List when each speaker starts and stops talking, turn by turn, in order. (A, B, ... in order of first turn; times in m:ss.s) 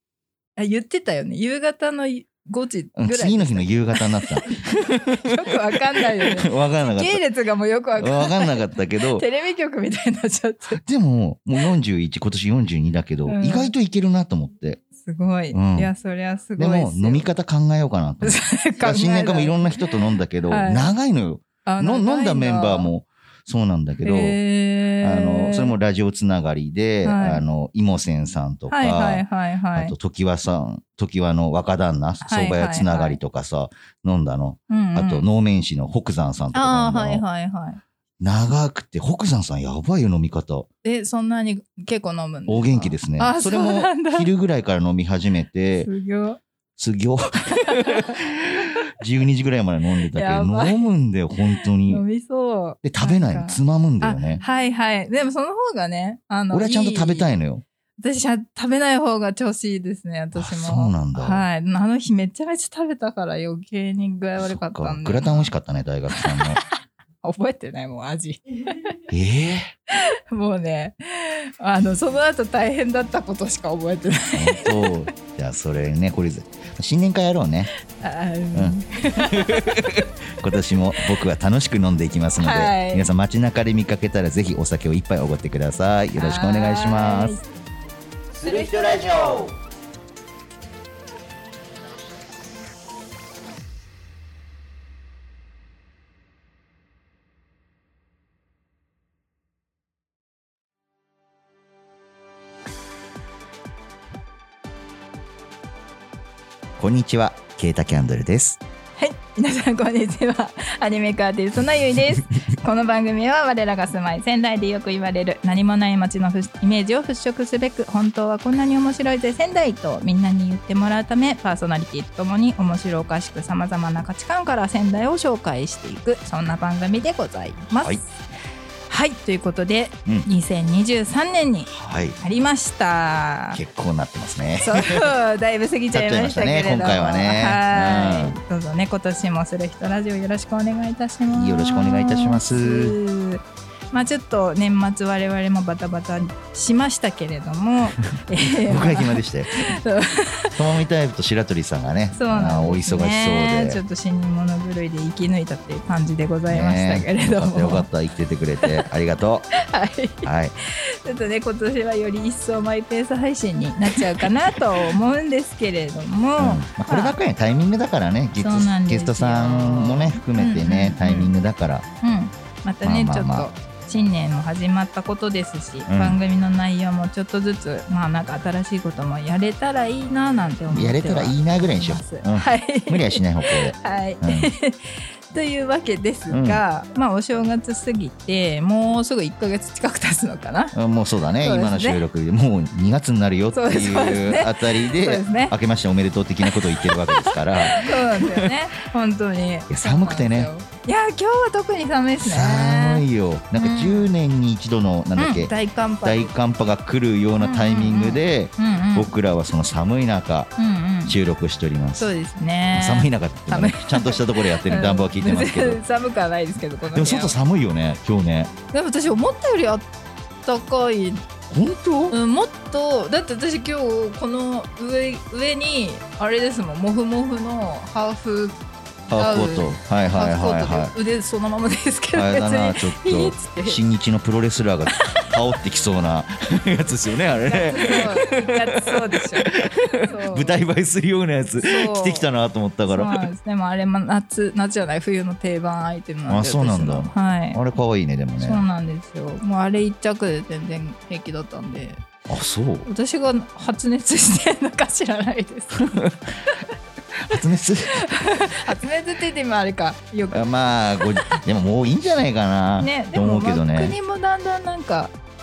0:00.6-0:10.8 A
0:03.0-0:07.2 B
0:08.0-0:09.2 B
0:10.8-0:14.8 B
0:13.3-0:13.7 A
0:15.0-0:17.3 A
0:15.5-0:15.9 B
0:16.6-0:24.4 B
0:18.2-0:20.9 A
0:21.6-0:22.9 A
0:24.0-0:25.8 A
0:25.0-0:37.2 B
0:27.0-0:27.4 A
0:28.7-0:29.9 A
0:32.2-0:33.2 A
0:34.7-0:35.2 A
0:36.5-0:37.8 A
0:38.2-0:40.7 B
0:40.8-0:44.3 A
0:42.5-0:45.9 B
0:45.8-0:46.4 A
0:46.8-0:52.0 B
0:50.1-0:50.9 A
0:51.6-0:57.3 A
0:52.8-0:54.4 B
0:56.5-0:57.6 B
0:58.0-1:05.5 A
1:00.3-1:01.4 B
1:04.4-1:06.6 B
1:06.1-1:06.7 A
1:07.2-1:08.9 A
1:09.1-1:09.7 B
1:09.9-1:15.1 A
1:14.3-1:17.7 B
1:18.0-1:19.8 A
1:18.5-1:27.4 B
1:22.4-1:23.0 A
1:26.2-1:27.4 A
1:28.4-1:29.5 B
1:28.4-1:29.5 A
1:46.8-1:48.6 B
1:49.0-2:08.0 A
2:08.9-2:11.7 A
2:11.7-2:12.2 B
2:12.2-2:13.6 A
2:13.5-2:15.1 B
2:14.6-2:30.6 A
2:15.9-2:18.4 B
2:21.3-2:23.0 B
2:28.6-2:29.8 B
2:30.6-2:33.8 B
2:32.1-2:37.9 A
2:36.5-2:39.5 B
2:39.6-2:40.3 A
2:40.2-2:40.5 B
2:41.0-2:47.2 A
2:46.4-2:51.8 B
2:48.4-2:51.3 A
2:52.0-3:10.7 A
2:52.8-2:53.5 B
2:55.9-2:56.2 B
3:00.7-3:04.5 B
3:06.3-3:06.6 B
3:10.7-3:18.5 B
3:11.4-3:12.0 A
3:13.5-3:15.5 A
3:16.4-3:23.0 A
3:19.7-3:20.5 B
3:22.2-3:25.5 B
3:23.5-3:24.1 A
3:25.2-3:26.3 A
3:26.0-3:30.5 B
3:27.4-3:29.1 A
3:30.6-3:31.2 A
3:31.0-3:32.1 B
3:32.0-3:37.3 A
3:32.7-3:35.8 B
3:36.9-3:38.5 B
3:38.7-3:39.9 A
3:40.4-3:41.2 A
3:41.5-3:42.2 B
3:42.1-3:48.6 A
3:49.1-3:50.9 B
3:49.1-3:53.8 A
3:52.1-4:03.2 B
3:54.9-3:55.3 A
3:57.4-4:00.6 A
4:01.6-4:02.3 A
4:02.9-4:07.6 A
4:06.3-4:08.6 B
4:08.4-4:12.0 A
4:12.3-4:12.9 B
4:12.8-4:16.6 A
4:17.2-4:18.1 B
4:17.9-4:20.6 A
4:20.3-4:24.0 B
4:21.2-4:21.4 A
4:22.8-4:25.1 A